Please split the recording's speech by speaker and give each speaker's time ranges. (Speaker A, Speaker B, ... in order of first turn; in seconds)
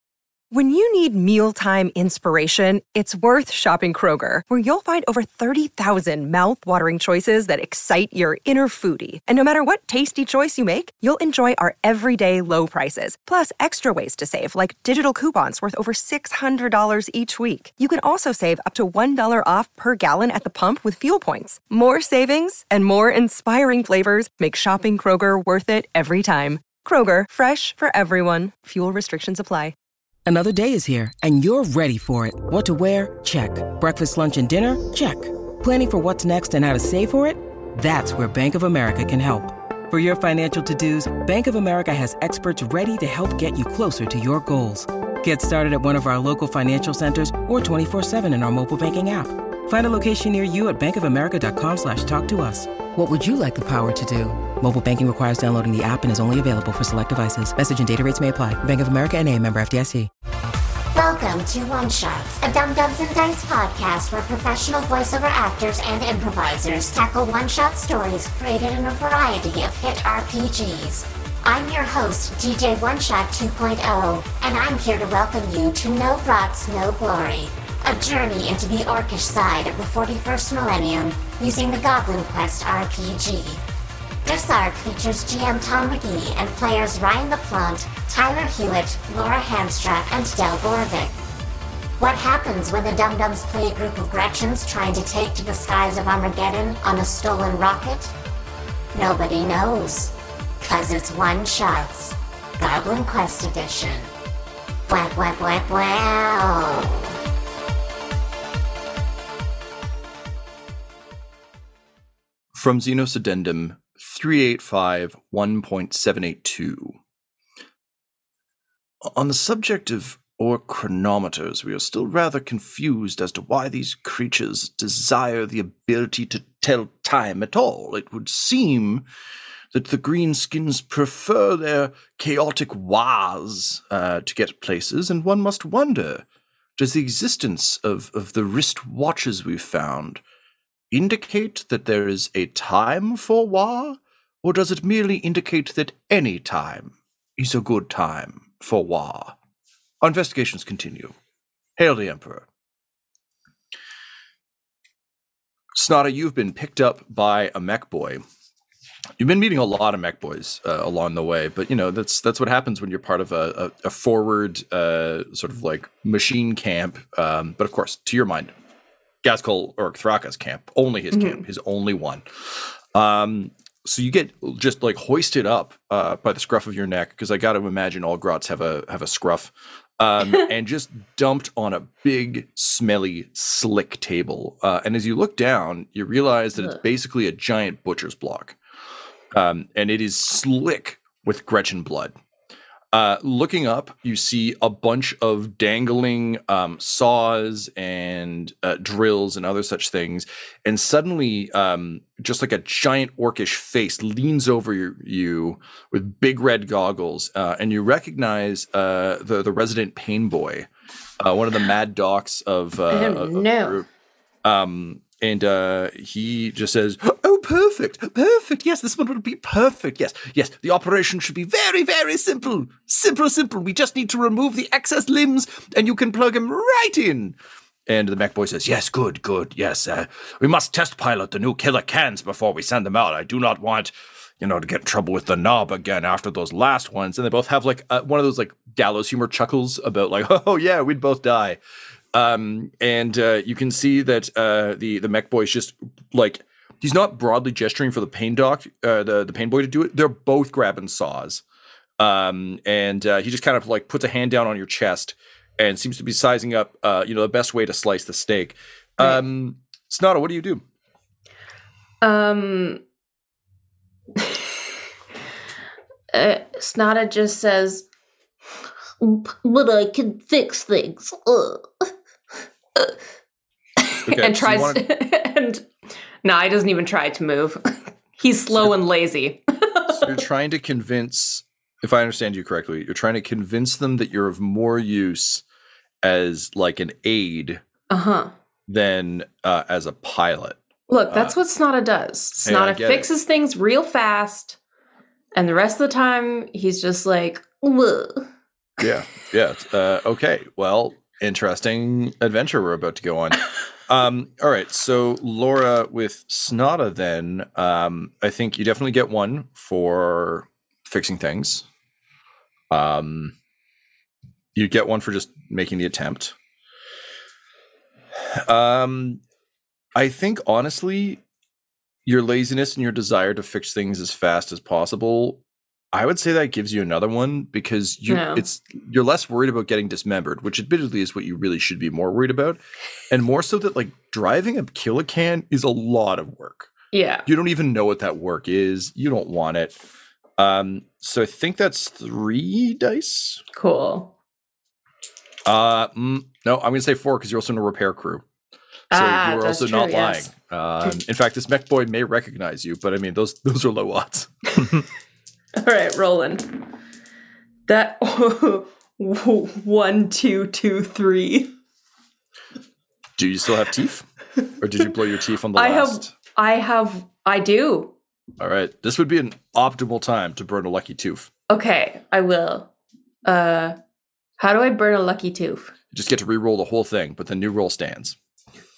Speaker A: 0.5-29.7
Speaker B: 30.3-60.1
Speaker C: 60.9-83.6, 84.2-91.2, 92.0-98.1, 98.9-104.1, 104.9-107.1
Speaker D: 112.5-117.0, 119.1-129.1, 129.7-136.2, 136.8-140.2, 140.9-149.3, 150.0-151.1, 151.8-152.4, 155.7-158.2, 159.2-168.5, 169.2-188.6, 189.3-192.2, 192.9-210.7, 211.2-213.8, 214.4-241.6, 242.1-251.4, 252.0-260.6, 274.1-274.8, 279.9-285.4, 286.0-287.6, 288.7-290.6, 291.1-291.4, 292.4-293.1, 298.8-311.6, 312.7-313.3, 314.5-316.3, 318.4-319.2, 319.9-321.2, 322.1-325.4, 325.9-336.7, 337.2-339.8, 340.4-343.4, 345.4-348.2, 348.9-354.3, 363.2-364.1, 364.6-366.1, 368.4-371.3, 375.9-378.1
Speaker E: 171.1-171.4, 212.9-213.8, 262.0-262.8, 264.2-264.5, 266.1-267.9, 274.1-275.7, 276.2-280.2, 287.9-288.3, 290.9-294.6, 295.3-297.9, 328.1-328.4, 336.9-337.3, 343.5-344.1, 348.9-350.3, 355.6-356.7, 357.7-361.5, 365.5-367.9, 371.5-372.7, 373.2-373.8, 374.4-375.7
Speaker F: 269.0-271.7, 297.7-298.2